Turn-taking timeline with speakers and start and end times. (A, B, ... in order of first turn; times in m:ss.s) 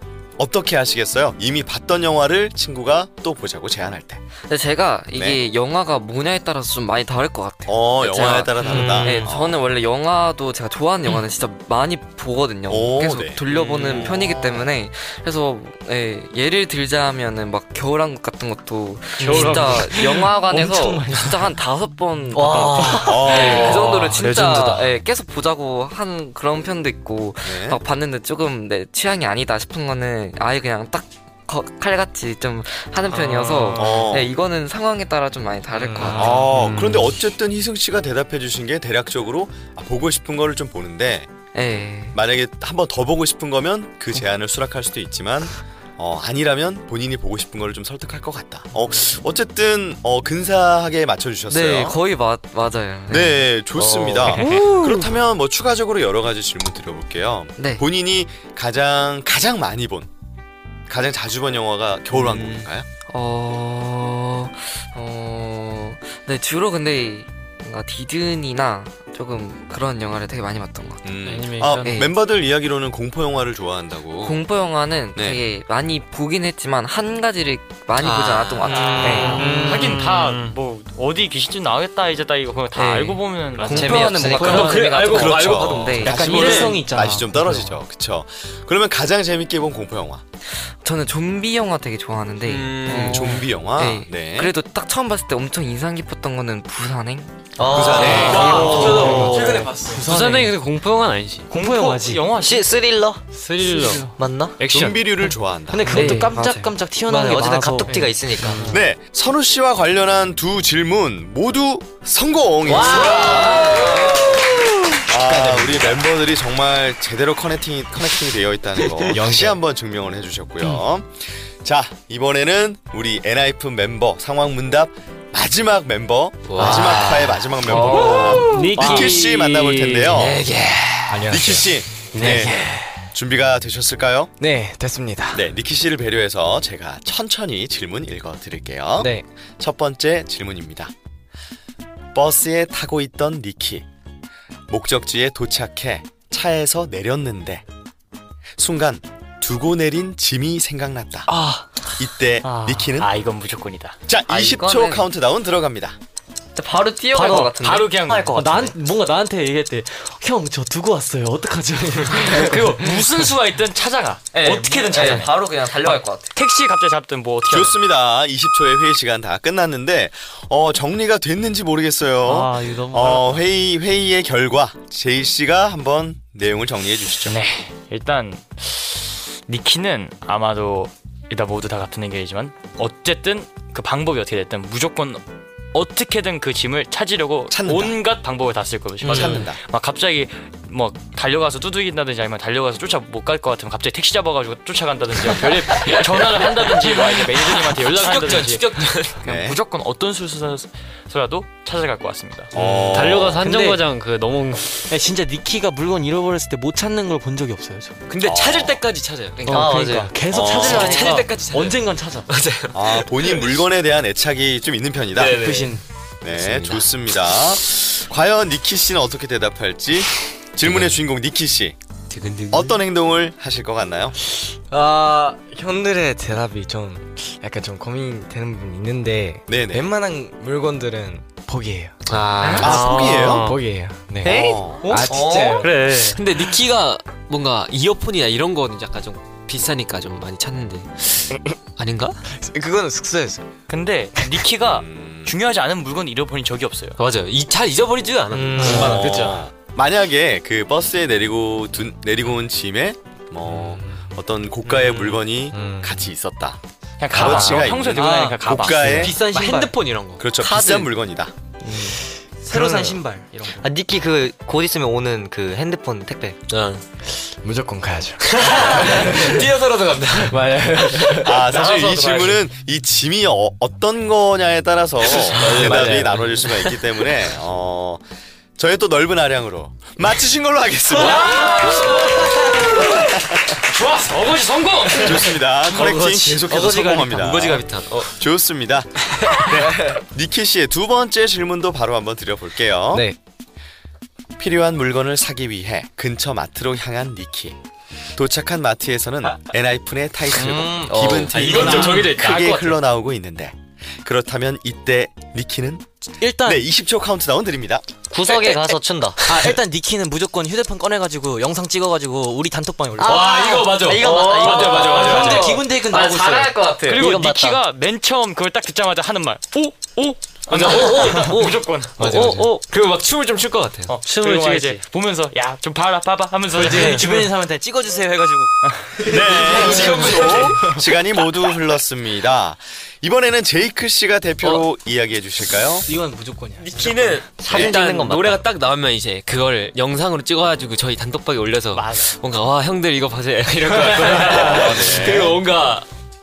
0:00.4-0:04.2 A
0:04.5-0:36.5 B
0:05.1-0:05.4 A
0:07.7-0:09.6 A
0:08.7-0:09.2 C
0:12.7-0:14.7 A
0:19.2-0:21.5 D
0:19.2-0:19.9 E
0:22.3-0:23.2 C
0:22.5-0:23.0 D
0:23.0-0:24.0 A
0:23.2-0:24.9 E
0:27.4-0:27.8 A
0:33.1-0:34.1 E
0:33.8-0:34.3 A
0:35.9-0:37.2 E
0:36.1-0:41.3 A
0:41.5-0:42.2 B
0:42.1-0:52.0 A
0:51.5-0:53.4 B
0:53.1-1:00.1 A
0:53.8-0:54.3 F
0:57.6-0:57.8 B
1:00.9-1:02.9 A
1:02.1-1:11.0 B
1:11.0-1:14.4 A
1:11.3-1:11.9 E
1:11.8-1:12.1 B
1:14.2-1:19.5 B
1:15.2-1:15.4 A
1:18.0-1:19.2 G
1:18.7-1:24.8 H
1:18.8-1:20.6 E
1:19.0-1:19.4 C
1:19.1-1:20.0 D
1:22.8-1:26.4 B
1:23.6-1:26.8 E
1:23.7-1:26.0 G
1:23.7-1:24.7 C
1:24.4-1:24.8 D
1:25.1-1:30.2 A
1:26.0-1:27.8 D
1:30.8-1:37.3 B
1:32.4-1:33.4 G
1:32.9-1:34.5 A
1:37.6-1:39.7 C
1:37.6-1:39.1 A
1:38.0-1:38.4 B
1:38.1-1:41.5 E
1:38.2-1:39.0 G
1:38.3-1:40.6 D
1:38.4-1:39.2 F
1:41.5-1:42.7 H
1:41.5-1:42.2 D
1:42.4-1:43.2 C
1:43.3-1:45.3 E
1:43.6-1:44.1 D
1:44.2-1:44.6 C
1:44.7-1:46.2 A
1:45.7-1:48.7 D
1:45.9-1:46.7 B
1:46.0-1:46.3 E
1:47.1-1:48.7 C
1:48.5-1:48.8 E
1:48.7-1:54.0 A
1:52.7-1:54.4 F
1:55.1-2:10.5 A
1:55.2-1:56.0 F
1:59.1-1:59.6 F
2:06.5-2:08.7 G
2:06.6-2:08.3 F
2:07.7-2:08.5 B
2:07.7-2:10.3 E
2:08.8-2:09.1 F
2:10.1-2:11.3 G
2:11.1-2:12.7 F
2:11.3-2:12.6 A
2:12.2-2:12.5 G
2:12.2-2:12.8 E
2:13.1-2:14.3 A
2:14.4-2:15.4 F
2:15.3-2:20.9 A
2:19.0-2:19.2 F
2:22.1-2:23.9 A
2:24.7-2:27.6 A
2:28.6-2:31.3 A
2:31.3-2:31.6 D
2:32.0-2:33.1 A
2:32.4-2:33.0 D
2:33.0-2:34.0 H
2:34.1-2:36.0 A
2:34.3-2:35.1 B
2:36.6-2:37.9 B
2:37.2-2:37.5 D
2:37.2-2:38.6 H
2:38.1-2:38.7 C
2:38.3-2:43.1 D
2:42.2-2:47.8 H
2:44.3-2:46.3 B
2:44.4-2:45.3 D
2:47.5-2:57.4 A
2:52.2-2:53.4 D
2:57.2-3:05.2 H
3:05.7-3:22.6 H
3:07.5-3:08.0 A
3:09.0-3:09.4 C
3:09.0-3:09.6 A
3:15.3-3:19.3 G
3:19.2-3:19.6 A
3:22.5-3:23.4 A
3:22.8-3:24.8 E
3:23.4-3:23.8 D
3:24.9-3:28.0 D
3:28.1-3:33.6 G
3:28.2-3:28.8 A
3:29.4-3:32.3 D
3:29.5-3:30.1 C
3:30.3-3:31.2 A
3:32.7-3:35.4 A
3:35.1-3:35.7 G
3:35.2-3:35.8 D
3:36.2-3:41.8 A
3:36.3-3:36.9 G
3:40.6-3:41.0 G
3:42.1-3:42.8 G
3:42.5-3:44.2 A
3:44.7-3:55.7 F
3:49.5-3:49.9 A
3:52.1-3:53.6 G
3:52.6-3:53.5 E
3:52.6-3:53.5 A
3:54.2-3:54.9 A
3:54.7-3:55.5 D
3:55.0-4:02.2 G
3:55.6-3:56.2 E
4:02.4-4:03.5 F
4:03.7-4:07.0 H
4:04.6-4:05.4 A
4:07.0-4:09.4 G
4:08.4-4:08.8 C
4:08.4-4:09.5 F
4:08.6-4:16.6 A
4:13.5-4:14.1 F
4:15.5-4:16.1 F
4:17.0-4:19.0 H
4:17.1-4:19.2 A
4:17.2-4:19.8 D
4:18.8-4:20.5 G
4:20.2-4:21.3 A
4:20.5-4:20.9 D
4:21.6-4:23.7 D
4:23.6-4:26.4 C
4:26.5-4:26.8 G
4:27.2-4:29.5 F
4:28.2-4:32.4 G
4:30.3-4:31.5 F
4:31.2-4:38.0 A
4:35.1-4:36.8 G
4:35.3-4:36.3 F
4:38.6-4:41.8 A
4:41.2-4:45.4 H
4:44.9-4:53.1 A
4:45.7-4:48.1 G
4:46.5-4:47.2 D
4:54.4-4:57.6 A
4:58.2-5:05.9 A
5:00.4-5:00.8 D
5:00.8-5:02.8 G
5:01.4-5:01.8 F
5:01.6-5:02.1 D
5:06.2-5:06.6 D
5:06.4-5:07.8 A
5:08.1-5:09.4 C
5:09.2-5:13.3 D
5:13.0-5:17.0 G
5:13.0-5:15.4 C
5:14.7-5:16.6 D
5:16.9-5:22.3 H
5:16.9-5:17.6 C
5:20.5-5:24.0 G
5:22.0-5:22.5 F
5:23.9-5:27.3 H
5:24.0-5:24.8 E
5:26.5-5:28.5 D
5:28.6-5:29.1 H
5:29.0-5:35.9 A
5:29.1-5:30.8 G
5:29.2-5:30.6 D
5:35.8-5:37.0 D
5:36.6-5:45.9 G
5:37.4-5:38.5 C
5:37.5-5:37.8 A
5:41.7-5:42.2 H
5:44.2-5:45.4 A